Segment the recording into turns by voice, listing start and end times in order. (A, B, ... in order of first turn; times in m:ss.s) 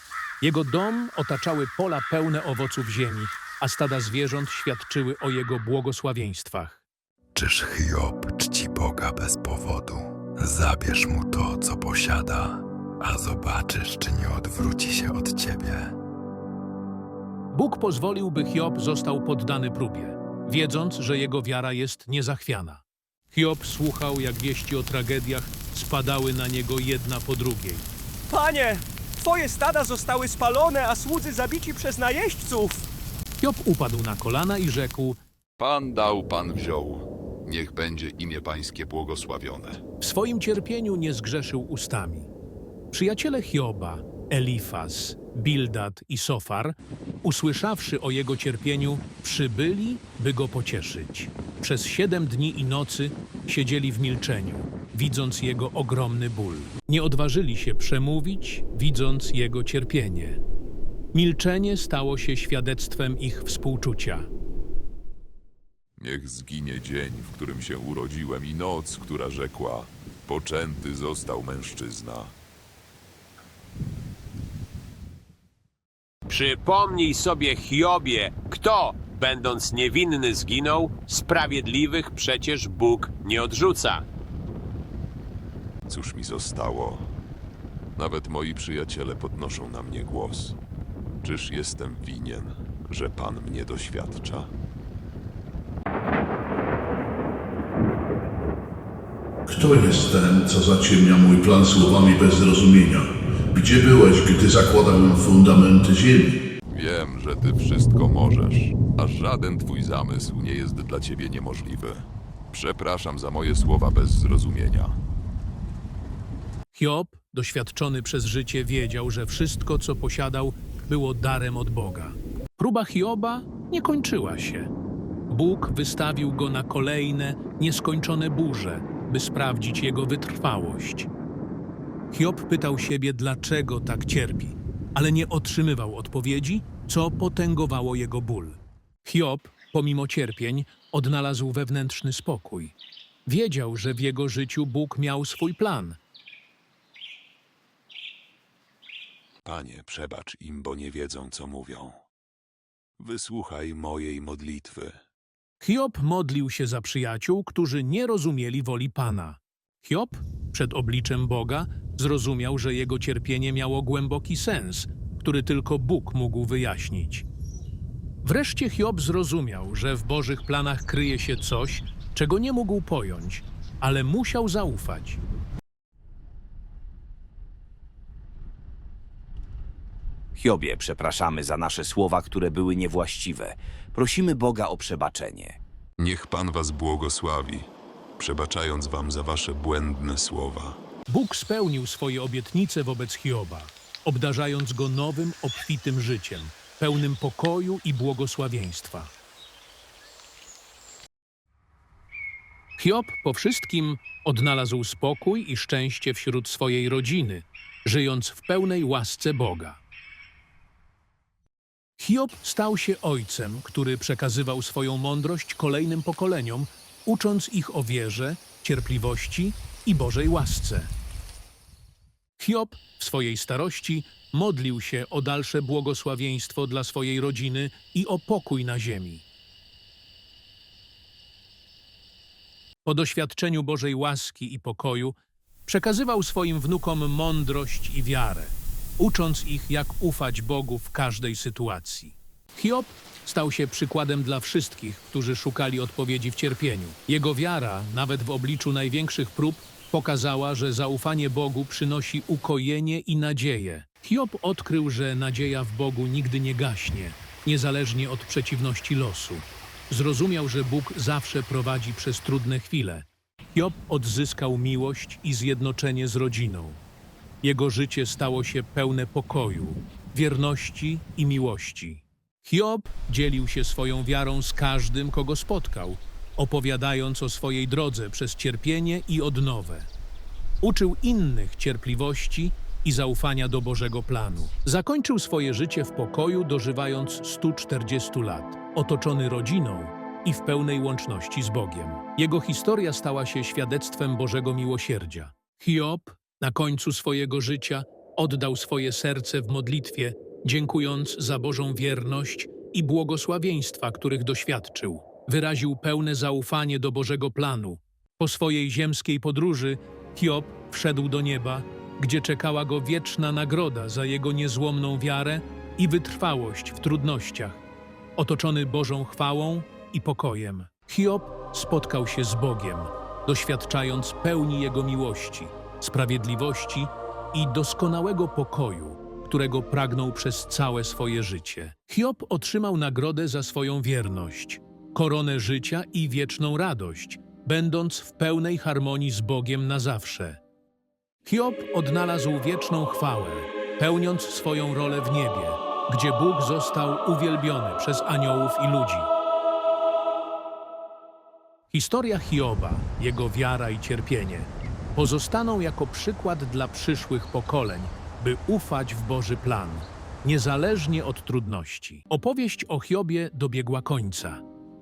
0:00.4-0:06.8 A
0:07.4-0:16.0 B
0:17.5-0:27.9 A
0:28.3-0:32.9 C
0:33.4-0:35.2 A
0:35.6-0:39.8 D
0:40.0-0:42.3 A
0:42.9-1:00.4 A
1:01.1-1:04.3 A
1:06.0-1:12.4 D
1:16.3-1:24.0 E
1:25.9-1:27.1 D
1:28.0-1:30.6 D
1:31.2-1:34.5 D
1:39.5-1:46.3 F
1:46.7-1:55.0 D
1:56.7-2:04.7 A
2:05.3-2:11.1 A
2:12.1-2:22.8 A
2:23.3-2:26.0 A
2:29.4-2:32.0 D
2:33.0-2:35.0 D
2:35.6-2:47.3 A
2:48.2-2:55.2 A
3:00.4-3:05.6 G
3:06.0-3:10.8 D
3:11.1-3:19.1 A
3:22.8-3:29.8 A
3:32.0-3:40.9 A
3:42.4-3:49.2 A
3:52.8-4:26.8 A
4:27.4-4:39.9 A
4:40.6-5:17.6 A
5:18.2-5:40.4 A
5:41.2-5:49.1 A
5:51.7-6:04.4 A